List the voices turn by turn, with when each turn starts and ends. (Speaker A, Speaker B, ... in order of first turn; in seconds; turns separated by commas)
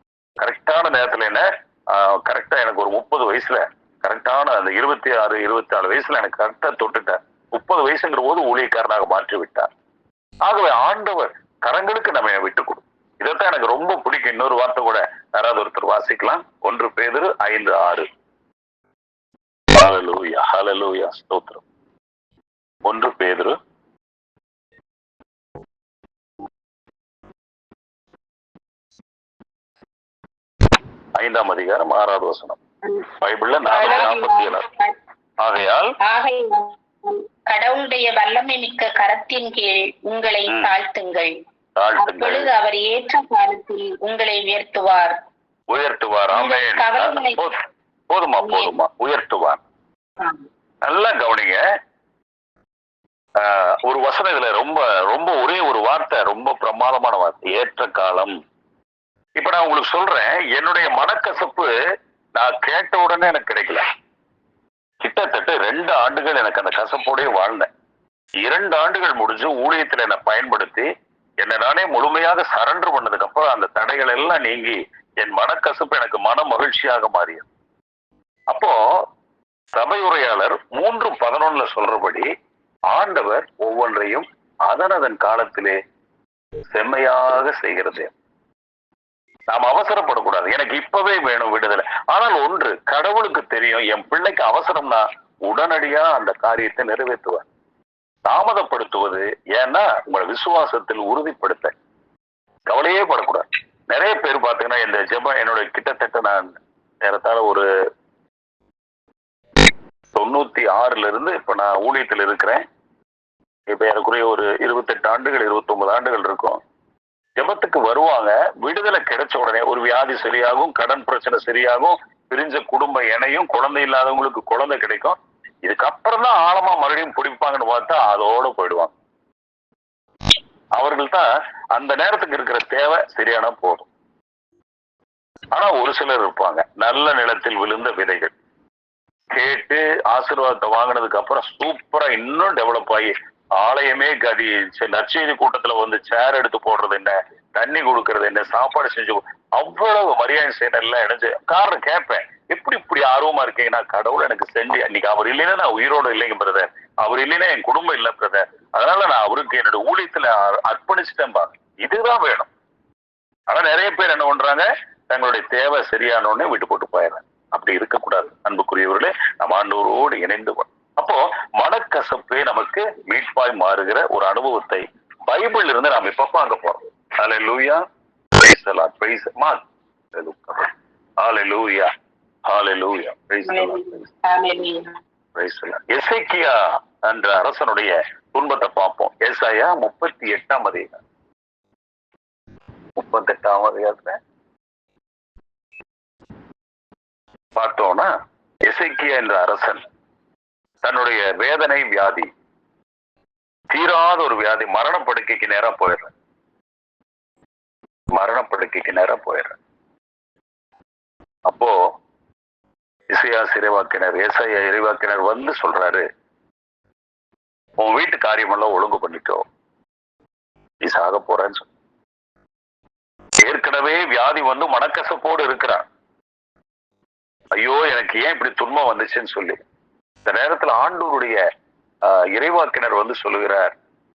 Speaker A: 0.4-9.7, Speaker A: 10.4-18.1, Speaker A: 19.7-21.6, Speaker A: 22.8-23.6, Speaker A: 31.2-32.6, Speaker A: 33.1-34.6, Speaker B: 33.7-35.0, Speaker A: 35.4-35.9, Speaker B: 36.0-41.4, Speaker A: 41.8-42.5, Speaker B: 42.0-45.2, Speaker A: 45.7-47.6, Speaker B: 46.3-47.4, Speaker A: 48.1-49.6, Speaker B: 48.4-48.7, Speaker A: 50.8-51.6, Speaker A: 53.4-58.3, Speaker A: 59.4-61.7, Speaker A: 62.4-63.8, Speaker A: 65.0-67.7, Speaker A: 68.4-70.9, Speaker A: 71.4-77.5, Speaker A: 78.5-78.8, Speaker A: 79.7-82.3, Speaker A: 82.9-85.8, Speaker A: 86.7-88.1, Speaker A: 89.5-97.4, Speaker A: 98.3-101.7, Speaker A: 102.7-107.7, Speaker A: 110.2-112.6, Speaker A: 113.7-116.6, Speaker A: 117.4-128.9, Speaker A: 130.7-133.9, Speaker A: 135.5-138.3, Speaker A: 139.3-162.5, Speaker A: 163.5-177.8, Speaker A: 178.4-179.6, Speaker A: 180.1-181.9, Speaker A: 182.5-184.1, Speaker B: 183.5-184.9, Speaker A: 185.3-191.0, Speaker A: 192.9-194.2, Speaker A: 197.6-198.1, Speaker A: 198.7-199.8, Speaker A: 200.8-202.3, Speaker A: 203.7-206.1, Speaker A: 208.1-209.6, Speaker A: 211.5-211.8, Speaker A: 213.1-216.0, Speaker A: 217.8-219.4, Speaker A: 220.8-221.7, Speaker A: 223.4-225.8, Speaker A: 227.5-229.6, Speaker A: 230.2-231.4, Speaker A: 232.1-233.7